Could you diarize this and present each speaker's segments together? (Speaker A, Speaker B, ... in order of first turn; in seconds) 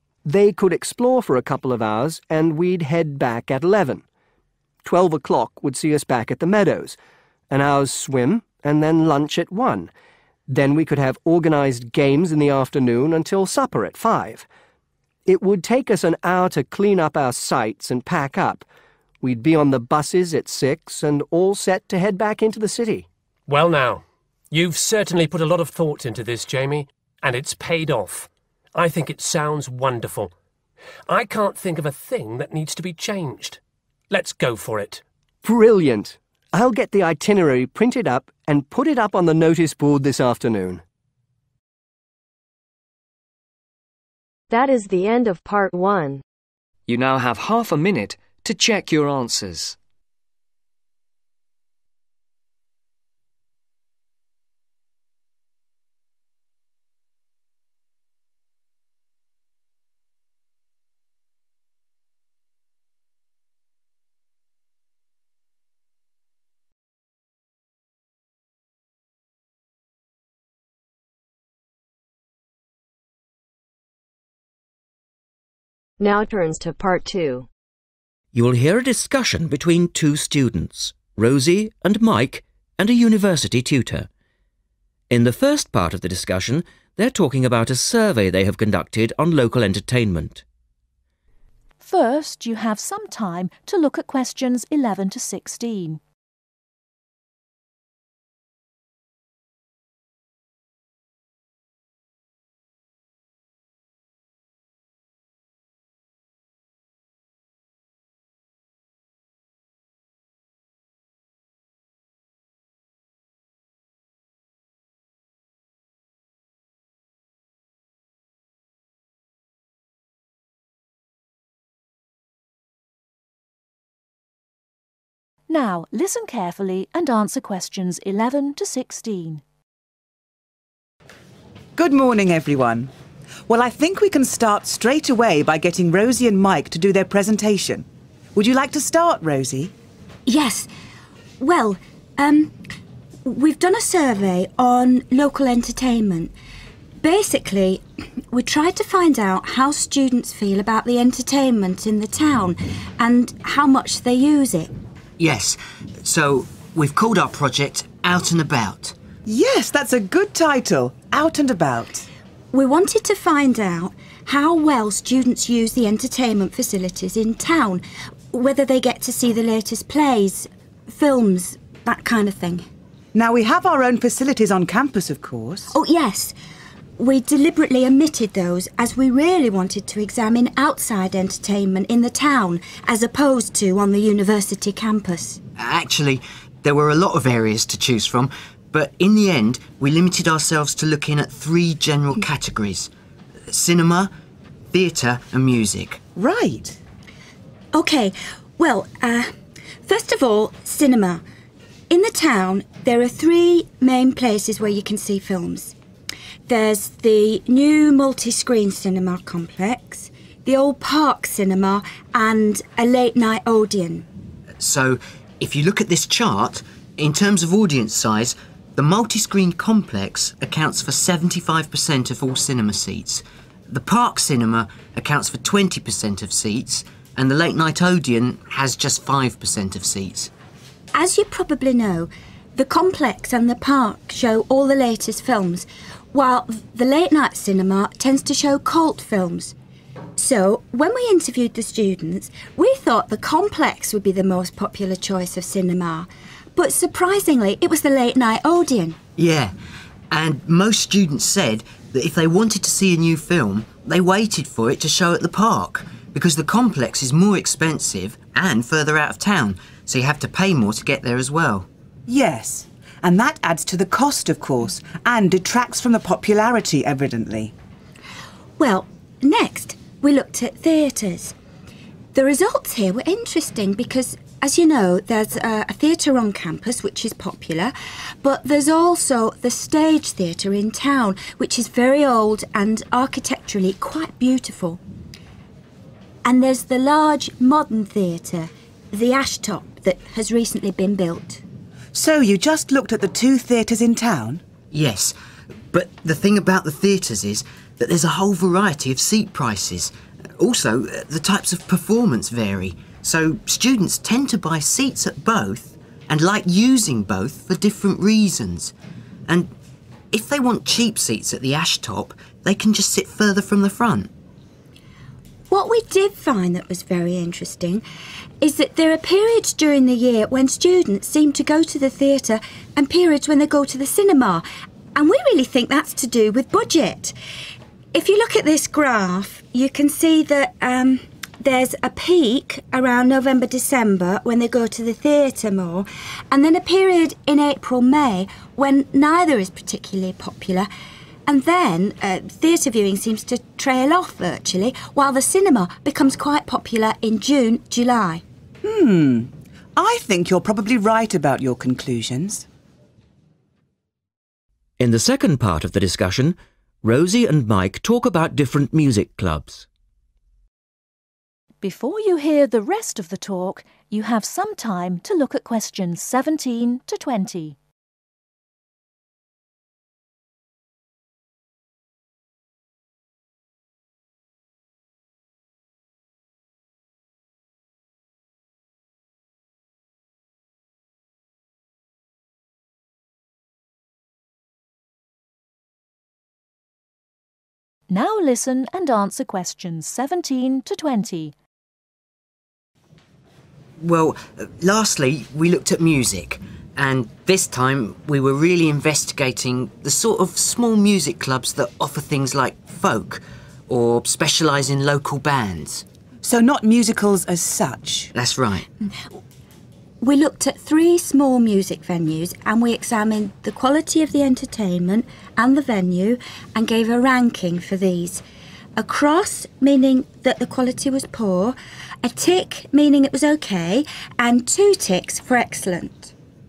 Speaker A: 0.2-4.0, 4.8-7.0, 7.5-9.9, 10.5-14.5, 15.3-18.7, 19.2-23.1, 35.4-40.8
Speaker B: 23.5-30.3, 31.1-33.6, 34.1-35.0
Speaker C: 44.5-46.2, 76.0-77.5
Speaker D: 46.9-49.8
Speaker E: 78.3-84.1, 85.1-90.4, 354.8-359.7
Speaker F: 91.8-96.0, 125.5-129.4, 361.6-367.6, 387.9-391.3
Speaker G: 131.8-132.9, 133.5-139.7, 159.3-162.1, 173.1-175.7, 196.2-196.8, 262.1-267.5, 291.9-294.4, 348.6-352.5, 406.2-408.1
Speaker H: 140.3-140.7, 141.4-142.6, 143.3-146.3, 147.0-154.7, 162.5-172.7, 175.7-176.3, 177.0-185.4, 197.7-199.3, 199.8-201.2, 201.9-205.8, 206.5-214.1, 230.9-239.5, 240.2-249.0, 268.6-271.3, 272.1-284.8, 286.2-291.4, 315.5-317.8, 318.4-324.4, 324.9-327.1, 327.9-340.7, 341.3-348.2, 410.0-418.2, 418.8-426.1
Speaker I: 155.2-158.9, 185.6-192.9, 193.5-194.1, 194.7-196.0, 214.6-230.3, 249.2-249.5, 250.1-261.7, 294.7-295.1, 295.7-308.7, 310.1-314.1, 393.8-405.9, 408.1-408.7